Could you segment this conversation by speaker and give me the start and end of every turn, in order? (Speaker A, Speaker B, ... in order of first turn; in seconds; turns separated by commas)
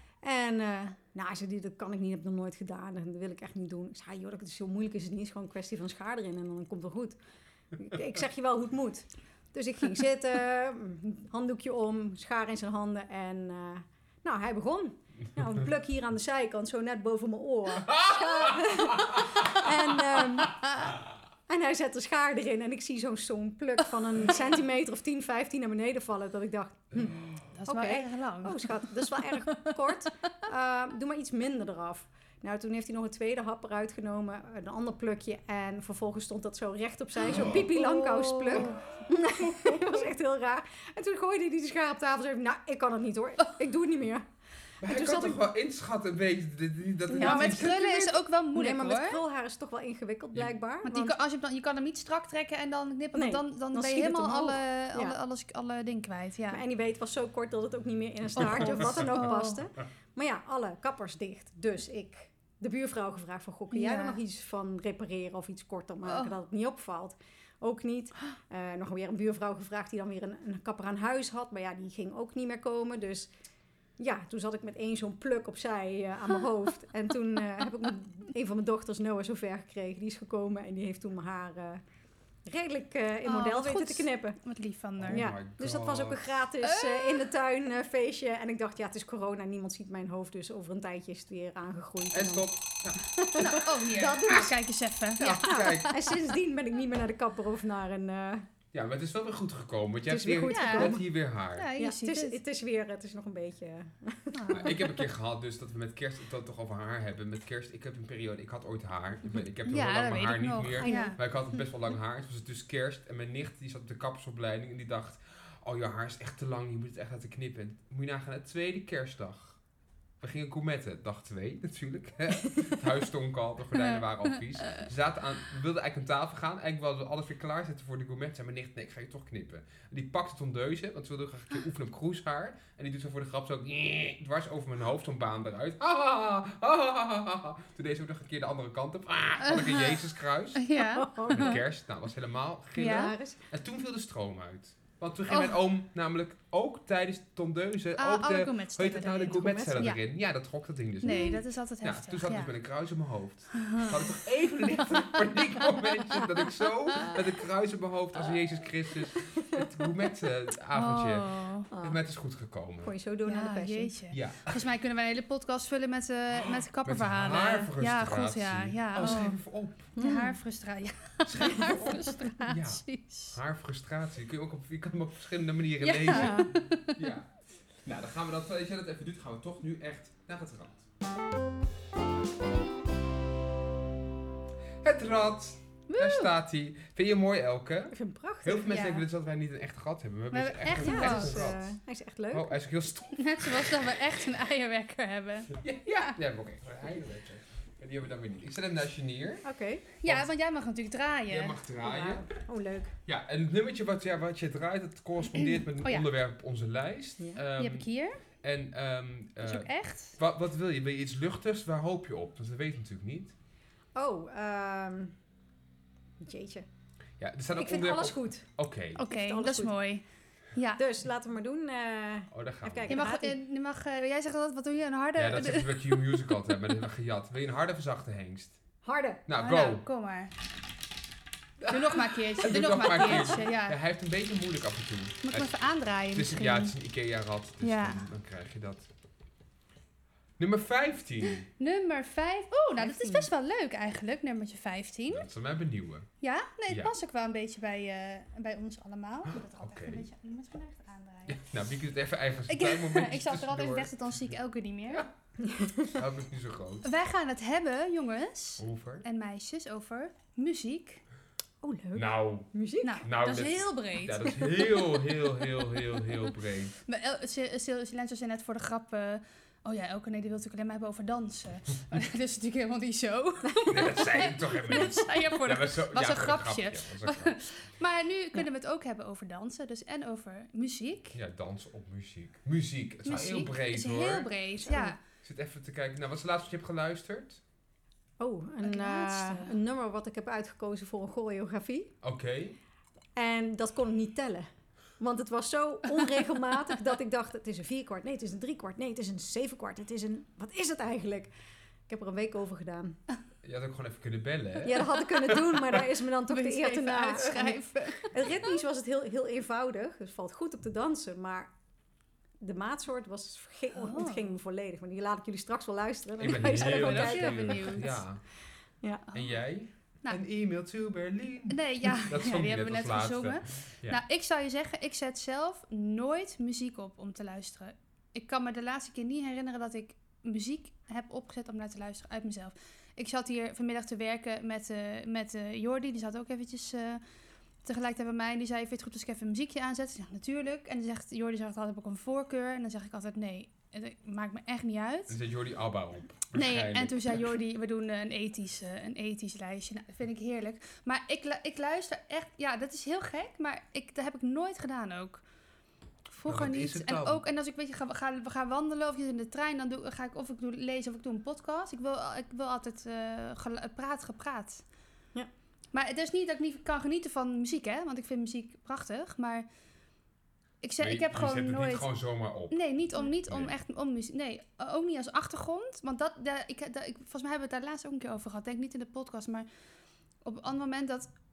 Speaker A: 0.2-7.2, Speaker A: 7.7-20.7, Speaker B: 17.9-19.6, Speaker A: 21.5-44.2, Speaker B: 27.1-27.4, Speaker C: 27.6-29.8, Speaker C: 37.5-38.8, Speaker B: 44.8-48.1, Speaker A: 44.8-45.4, Speaker A: 47.1-51.1, Speaker C: 47.1-49.2, Speaker C: 50.8-56.6, Speaker A: 53.1-55.2, Speaker A: 56.5-73.3, Speaker C: 58.4-59.6, Speaker B: 58.4-59.1, Speaker C: 63.7-64.2, Speaker C: 66.0-66.3, Speaker A: 74.0-81.8, Speaker A: 82.4-84.4, Speaker C: 83.2-85.3, Speaker B: 85.0-86.2, Speaker A: 85.1-94.5, Speaker C: 86.6-87.2, Speaker B: 92.1-93.1, Speaker C: 93.4-96.1, Speaker B: 95.2-95.9, Speaker A: 95.4-98.5, Speaker B: 98.7-101.7, Speaker A: 100.1-101.0, Speaker C: 100.5-102.4, Speaker A: 101.8-105.0, Speaker C: 104.3-104.8, Speaker B: 104.5-119.6, Speaker C: 109.6-111.2, Speaker A: 110.8-111.2, Speaker B: 120.2-162.9, Speaker C: 139.4-140.0, Speaker C: 140.6-141.6, Speaker A: 140.8-141.6, Speaker C: 142.8-143.1, Speaker A: 142.8-143.4, Speaker C: 145.3-145.5, Speaker C: 148.0-150.0, Speaker A: 149.3-149.9, Speaker A: 151.0-151.4, Speaker C: 151.0-152.5, Speaker C: 153.5-154.0, Speaker A: 159.2-159.6, Speaker C: 160.7-161.7, Speaker A: 161.7-162.0, Speaker A: 162.8-163.9, Speaker C: 163.2-169.4, Speaker B: 164.1-164.6, Speaker B: 166.8-169.9, Speaker A: 169.0-169.3, Speaker A: 169.9-170.4, Speaker C: 170.0-173.4, Speaker B: 171.2-177.3, Speaker C: 175.8-177.1, Speaker A: 176.1-176.5, Speaker B: 177.8-180.8, Speaker B: 184.8-191.7, Speaker C: 185.9-186.3, Speaker A: 187.9-188.9, Speaker C: 188.7-189.0, Speaker C: 190.3-191.5, Speaker A: 190.7-192.5, Speaker B: 192.3-193.9, Speaker C: 193.1-196.2, Speaker B: 195.6-199.4, Speaker A: 199.4-199.8, Speaker C: 200.0-201.6, Speaker B: 201.3-202.2, Speaker A: 201.8-202.9, Speaker B: 203.1-207.8, Speaker C: 205.4-206.1, Speaker C: 207.6-208.2, Speaker B: 208.4-213.3, Speaker C: 209.4-210.2, Speaker A: 213.9-215.1, Speaker A: 216.2-216.7, Speaker B: 217.2-219.0, Speaker A: 217.5-218.4, Speaker C: 219.0-220.0, Speaker A: 219.0-219.8, Speaker C: 220.5-220.8, Speaker A: 220.8-223.3, Speaker B: 222.3-223.0, Speaker C: 222.9-226.0, Speaker B: 225.2-228.6, Speaker A: 228.8-229.2, Speaker B: 229.3-229.8, Speaker C: 229.3-230.3, Speaker B: 231.6-235.5, Speaker C: 231.7-233.8, Speaker C: 235.2-236.7, Speaker B: 236.1-238.9, Speaker C: 237.6-238.0, Speaker B: 240.4-241.4, Speaker C: 241.5-245.3, Speaker A: 242.8-243.3, Speaker B: 245.1-246.1, Speaker C: 246.2-251.4, Speaker B: 249.3-250.1, Speaker B: 251.3-253.9, Speaker C: 252.5-255.0, Speaker A: 255.4-255.9, Speaker B: 255.9-256.9, Speaker C: 256.8-261.0, Speaker B: 258.6-259.0, Speaker A: 261.6-263.0, Speaker B: 261.9-262.5, Speaker C: 262.8-264.3, Speaker B: 263.0-266.8, Speaker C: 266.9-281.1, Speaker B: 273.7-277.4, Speaker B: 281.1-284.3, Speaker C: 283.0-285.0, Speaker A: 284.6-284.9, Speaker B: 285.1-287.4, Speaker A: 288.2-291.9, Speaker C: 288.6-289.5, Speaker B: 292.0-292.6, Speaker A: 293.1-294.5, Speaker A: 295.0-301.3, Speaker A: 301.9-303.0, Speaker B: 303.4-305.8, Speaker A: 304.6-311.5, Speaker C: 306.3-308.2, Speaker A: 312.4-317.7, Speaker C: 313.7-314.3, Speaker B: 316.2-318.2, Speaker C: 316.4-318.0, Speaker C: 319.1-319.3, Speaker B: 319.1-324.0, Speaker C: 321.5-337.0, Speaker C: 337.6-345.2, Speaker B: 345.1-347.2, Speaker C: 346.3-355.2, Speaker C: 356.1-364.6, Speaker B: 356.2-357.2, Speaker C: 365.7-369.4, Speaker C: 370.6-371.9, Speaker B: 370.8-373.5, Speaker C: 372.5-379.4, Speaker C: 380.2-381.1